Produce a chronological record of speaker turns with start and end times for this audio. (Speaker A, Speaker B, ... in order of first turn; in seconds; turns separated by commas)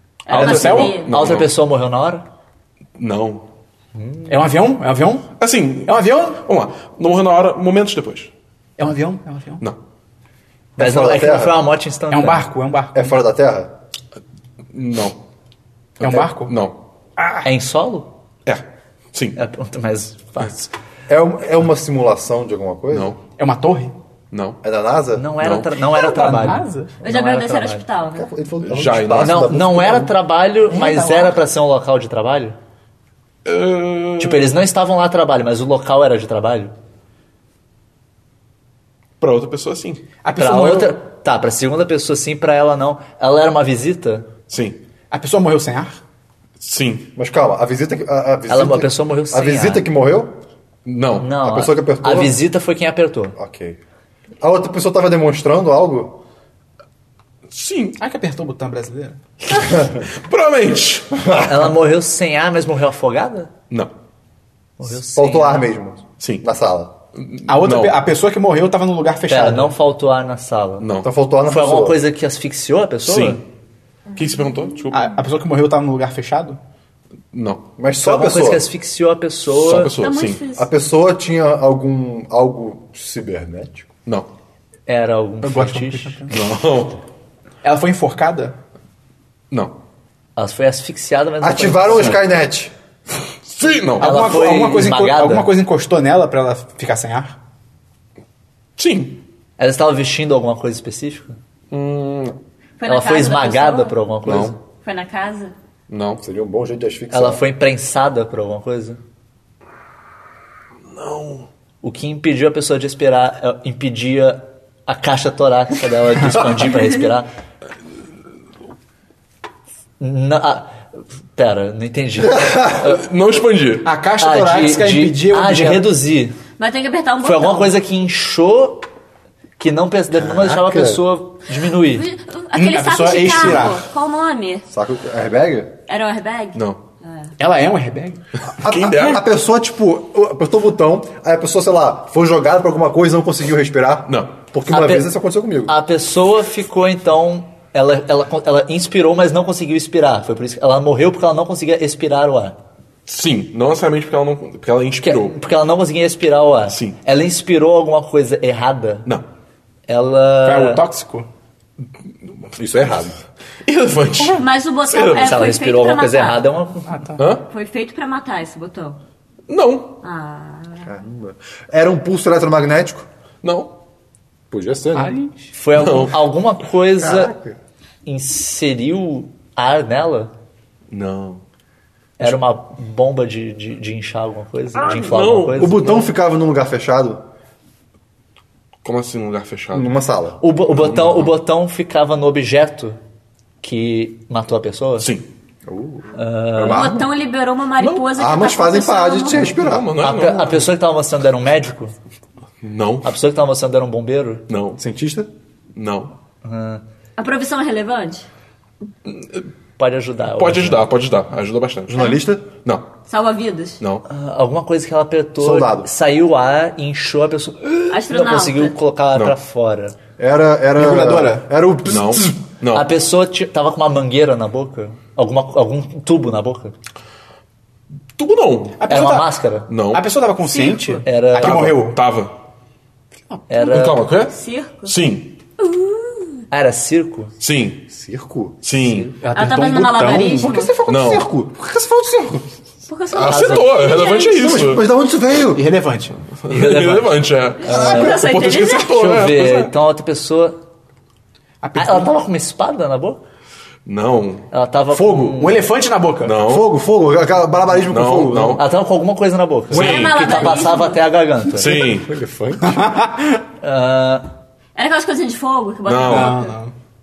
Speaker A: 0.2-1.1, Speaker B: 0.3-1.5, Speaker C: 0.3-0.9, Speaker D: 0.3-2.2, Speaker B: 3.0-3.5, Speaker D: 3.9-4.3, Speaker C: 4.3-5.3, Speaker B: 5.4-8.3, Speaker C: 5.8-6.4, Speaker C: 8.8-9.6, Speaker E: 10.8-11.7, Speaker D: 10.8-12.5, Speaker C: 12.1-13.1, Speaker E: 12.9-13.7, Speaker B: 14.7-15.2, Speaker C: 16.0-16.5, Speaker B: 16.0-16.8, Speaker D: 17.4-18.1, Speaker B: 18.4-19.4, Speaker D: 19.4-20.6, Speaker E: 21.1-23.1, Speaker B: 22.9-23.2, Speaker C: 23.4-23.9, Speaker B: 24.3-24.6, Speaker E: 24.6-25.3, Speaker D: 25.1-27.8, Speaker B: 25.4-25.7, Speaker C: 25.9-26.9, Speaker A: 27.0-28.3, Speaker E: 28.1-30.1, Speaker B: 28.6-29.5, Speaker D: 29.2-32.5, Speaker C: 30.7-31.4, Speaker B: 33.4-34.5, Speaker D: 34.2-36.7, Speaker B: 39.2-40.0, Speaker C: 40.2-41.0, Speaker D: 40.3-44.3, Speaker B: 44.5-44.8, Speaker C: 45.1-46.0, Speaker B: 46.6-47.1, Speaker E: 47.1-50.4, Speaker D: 48.5-49.9, Speaker B: 50.8-51.3, Speaker D: 51.2-53.4, Speaker E: 51.4-52.4, Speaker E: 53.4-53.8, Speaker E: 54.4-56.2, Speaker B: 57.5-58.0, Speaker C: 58.0-59.2, Speaker B: 59.5-61.3, Speaker E: 61.1-61.7, Speaker D: 61.4-63.5, Speaker D: 64.8-65.7, Speaker E: 65.1-66.9, Speaker B: 66.2-66.4, Speaker B: 67.1-68.0, Speaker C: 67.4-69.7, Speaker D: 69.3-73.4, Speaker B: 70.8-71.1, Speaker E: 71.0-72.0, Speaker B: 73.0-73.4, Speaker B: 74.2-75.1, Speaker C: 74.9-76.6, Speaker B: 77.3-77.7, Speaker E: 77.8-78.7, Speaker D: 78.0-79.9, Speaker B: 79.5-80.4, Speaker A: 80.0-80.7, Speaker E: 80.5-83.9, Speaker D: 84.9-86.3, Speaker C: 85.4-86.3, Speaker B: 86.3-87.0, Speaker C: 87.6-88.6, Speaker B: 89.5-89.8, Speaker D: 90.3-92.2, Speaker E: 91.4-92.7, Speaker B: 93.4-94.3, Speaker C: 94.0-97.4, Speaker D: 94.0-95.5, Speaker B: 98.8-99.2, Speaker D: 99.6-101.4, Speaker B: 101.7-102.4, Speaker A: 102.8-104.0, Speaker D: 102.8-104.6, Speaker B: 104.2-104.5, Speaker A: 104.8-105.5, Speaker B: 105.9-106.2, Speaker E: 106.2-107.4, Speaker D: 107.1-109.0, Speaker B: 110.9-111.5, Speaker D: 111.8-117.3, Speaker D: 120.0-120.8, Speaker D: 121.3-123.0, Speaker E: 122.2-122.9, Speaker B: 122.8-123.9, Speaker C: 123.8-125.9, Speaker D: 124.2-126.4, Speaker A: 126.6-127.7, Speaker D: 127.2-128.9, Speaker D: 129.6-132.1, Speaker E: 130.1-131.0, Speaker A: 131.9-134.6, Speaker C: 132.5-133.8, Speaker E: 134.7-135.7, Speaker A: 135.9-137.3, Speaker C: 137.4-138.2, Speaker E: 138.4-145.7, Speaker B: 138.6-139.2, Speaker B: 144.1-144.4, Speaker D: 144.7-145.1, Speaker D: 145.7-152.6, Speaker B: 153.1-155.4, Speaker D: 155.0-159.1, Speaker B: 156.7-157.0, Speaker D: 159.9-160.8, Speaker C: 160.4-161.3, Speaker E: 162.6-163.2, Speaker B: 163.6-165.4, Speaker A: 164.2-166.4, Speaker D: 165.1-167.1, Speaker C: 166.8-167.2, Speaker B: 167.2-167.5, Speaker A: 167.4-169.0, Speaker B: 169.5-170.0, Speaker A: 170.0-170.9, Speaker E: 170.8-173.1, Speaker B: 173.4-173.7, Speaker E: 174.5-175.2, Speaker C: 174.9-175.5, Speaker D: 175.5-177.3, Speaker B: 175.7-176.2, Speaker E: 177.0-177.6, Speaker D: 178.0-180.3, Speaker B: 180.9-181.4, Speaker D: 182.2-186.0, Speaker B: 184.7-185.7, Speaker E: 185.5-187.2, Speaker B: 188.8-189.9, Speaker E: 189.7-190.4, Speaker D: 190.4-193.0, Speaker B: 190.7-191.3, Speaker D: 193.6-195.1, Speaker B: 195.0-195.2, Speaker E: 195.7-197.1, Speaker D: 196.1-197.0, Speaker A: 196.6-199.6, Speaker B: 197.8-198.1, Speaker E: 198.1-199.9, Speaker B: 199.5-200.6, Speaker D: 199.9-201.9, Speaker B: 202.6-203.1, Speaker D: 203.0-204.4, Speaker B: 204.5-204.8, Speaker E: 204.8-205.3, Speaker B: 205.7-206.1, Speaker D: 206.4-206.8, Speaker A: 207.2-208.3, Speaker B: 209.1-209.5, Speaker D: 209.8-210.9, Speaker B: 210.3-212.8, Speaker E: 211.9-212.5, Speaker A: 213.1-213.8, Speaker B: 213.8-214.1, Speaker D: 214.1-219.9, Speaker E: 215.4-215.9, Speaker A: 217.9-218.8, Speaker E: 220.2-222.4, Speaker C: 220.8-221.5, Speaker B: 221.8-222.9, Speaker D: 222.7-226.7, Speaker B: 228.2-228.8, Speaker C: 228.8-229.4, Speaker D: 228.9-229.7, Speaker B: 229.7-230.0, Speaker C: 229.9-232.0, Speaker A: 230.5-231.0, Speaker D: 231.0-231.8, Speaker B: 231.4-232.3, Speaker D: 233.5-234.1, Speaker B: 233.6-235.3, Speaker A: 234.3-234.9, Speaker A: 235.6-236.4, Speaker D: 236.5-237.3, Speaker B: 237.4-237.8, Speaker E: 237.9-238.6, Speaker B: 238.6-239.1, Speaker D: 238.8-239.1, Speaker C: 239.2-241.2, Speaker A: 239.3-240.8, Speaker E: 240.4-242.4, Speaker B: 240.9-241.3, Speaker A: 242.9-244.8, Speaker B: 243.1-244.8, Speaker D: 243.2-243.8, Speaker E: 244.3-245.6, Speaker C: 245.5-246.2, Speaker B: 246.4-249.8, Speaker D: 246.5-248.2, Speaker A: 247.6-248.9, Speaker D: 248.8-250.6, Speaker C: 251.6-252.1, Speaker D: 251.8-253.2, Speaker B: 253.8-254.5, Speaker D: 254.5-255.7, Speaker E: 254.9-255.3, Speaker C: 255.3-256.4, Speaker B: 256.2-256.7, Speaker E: 256.4-258.6, Speaker B: 257.9-258.6, Speaker D: 258.6-261.8, Speaker B: 259.7-260.6, Speaker A: 259.7-261.0, Speaker B: 261.5-262.1, Speaker E: 261.5-262.9, Speaker C: 262.6-263.4, Speaker D: 263.6-264.3, Speaker A: 264.7-266.6, Speaker B: 265.9-266.3, Speaker C: 266.0-266.7